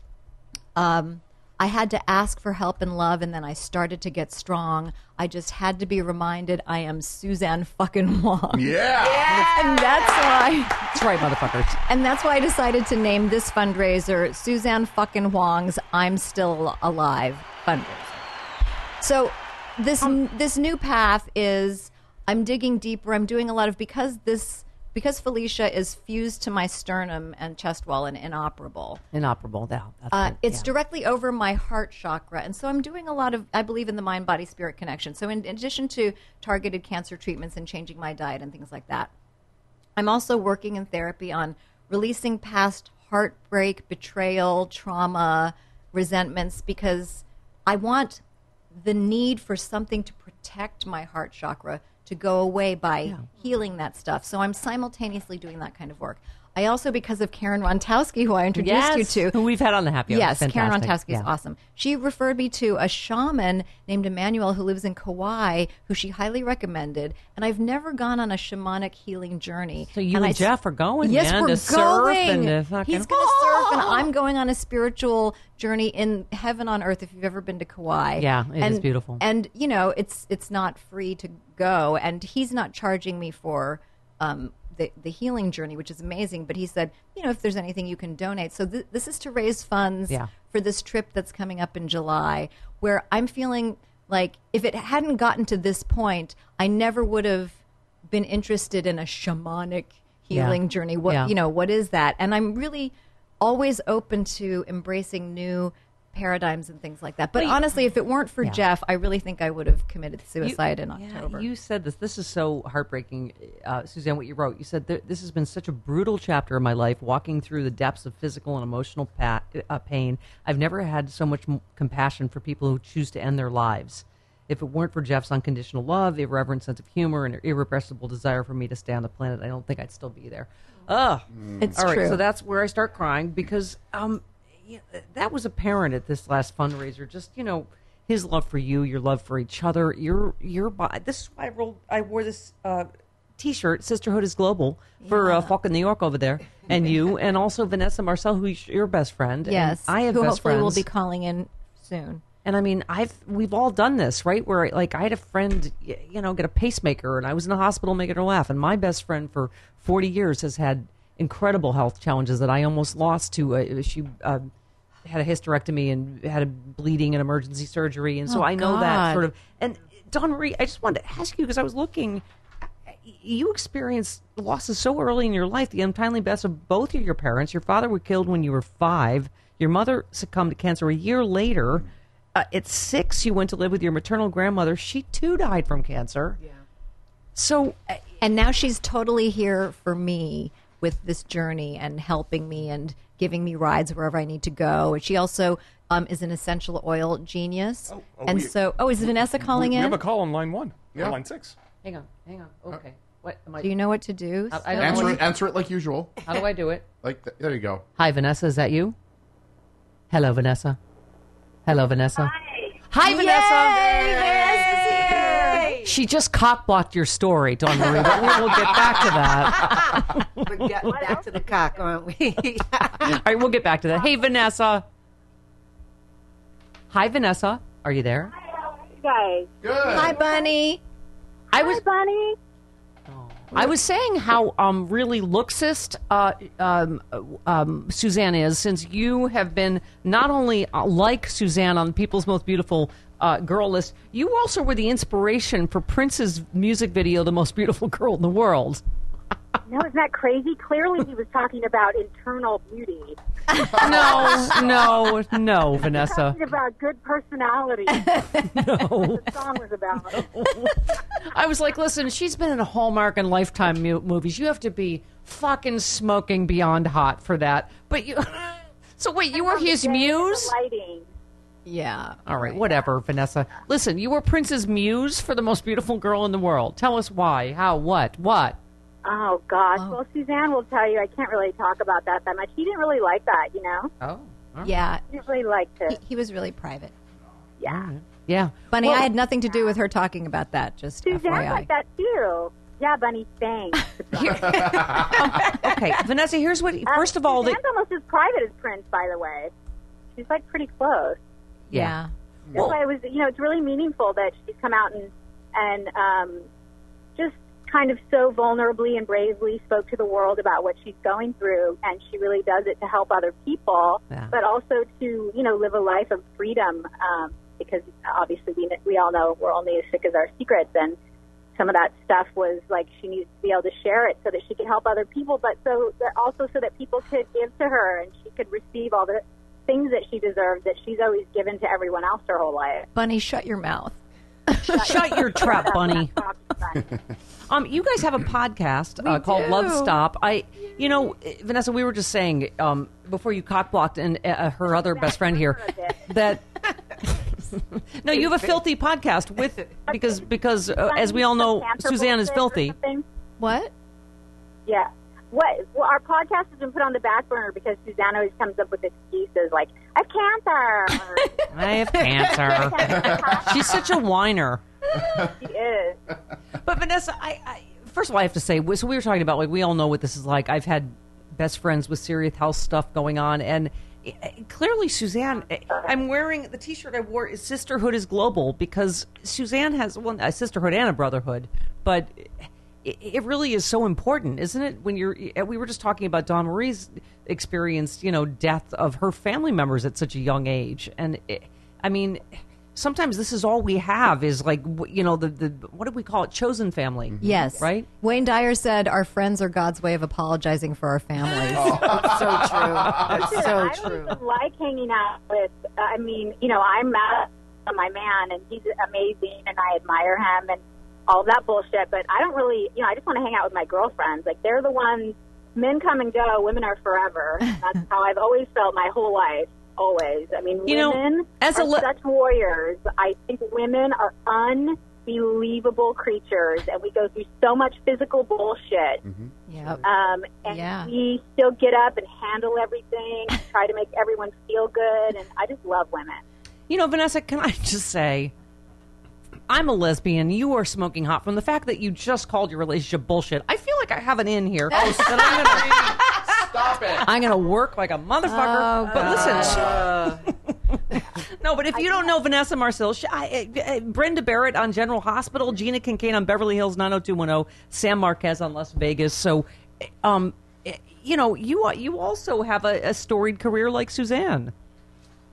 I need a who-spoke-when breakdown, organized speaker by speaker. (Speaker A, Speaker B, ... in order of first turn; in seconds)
Speaker A: 0.7-10.9, 11.9-18.3, 19.0-29.0, 30.1-39.1, 40.0-48.2, 48.7-59.4, 60.1-70.5, 71.0-111.5, 131.6-132.2, 145.0-145.5, 149.4-152.2, 168.3-169.3, 188.2-200.0, 203.6-205.2, 213.0-214.9, 229.8-230.8, 271.6-272.6, 284.6-285.0, 285.9-286.9, 288.7-291.7, 301.7-302.1, 332.9-333.9, 334.5-335.4, 339.0-339.9, 353.4-353.7, 397.2-401.8, 429.5-429.8, 430.4-430.9, 448.2-449.8
Speaker B: 8.5-9.5, 131.3-131.7, 204.8-206.2, 207.0-207.8, 229.6-230.2, 253.8-254.8, 294.2-295.2, 302.5-302.8, 397.1-397.4, 401.5-403.2, 429.0-429.3, 444.7-447.1, 449.1-450.1
Speaker C: 10.9-11.8, 29.1-30.7, 58.5-61.3, 69.9-74.0, 78.2-79.2, 100.3-101.3, 107.3-107.6, 110.4-150.8, 152.4-164.5, 165.1-172.2, 172.9-186.4, 187.3-188.0, 201.8-203.7, 204.5-205.2, 206.2-206.8, 208.0-208.9, 210.1-210.8, 211.7-212.3, 212.9-221.2, 222.9-224.8, 226.9-228.3, 231.5-231.8, 233.1-248.8, 253.6-256.4, 258.5-259.3, 260.1-270.5, 272.2-278.6, 284.0-284.7, 287.6-289.1, 294.2-297.6, 301.7-301.9, 314.1-314.3, 334.7-336.2, 337.5-346.5, 347.0-352.8, 361.5-364.6, 366.6-392.2, 392.7-397.9, 401.8-403.7, 420.6-421.9, 436.7-438.3, 439.5-446.2, 447.0-464.5
Speaker D: 197.9-198.5, 199.5-201.5
Speaker E: 213.8-215.9, 219.6-223.2, 401.7-404.2
Speaker F: 220.9-221.2, 228.5-229.5, 230.2-230.5, 231.5-232.4, 249.7-253.2, 254.1-254.6, 255.9-260.3, 269.3-271.1, 279.0-283.9, 285.1-286.0, 287.6-287.9, 291.0-294.9, 296.9-299.5, 300.1-301.2, 302.5-306.5, 307.1-320.9, 321.6-332.9, 334.6-336.9, 344.7-346.0, 350.9-353.0, 354.6-361.4, 362.5-363.8, 365.4-366.0, 403.2-429.0, 429.8-436.2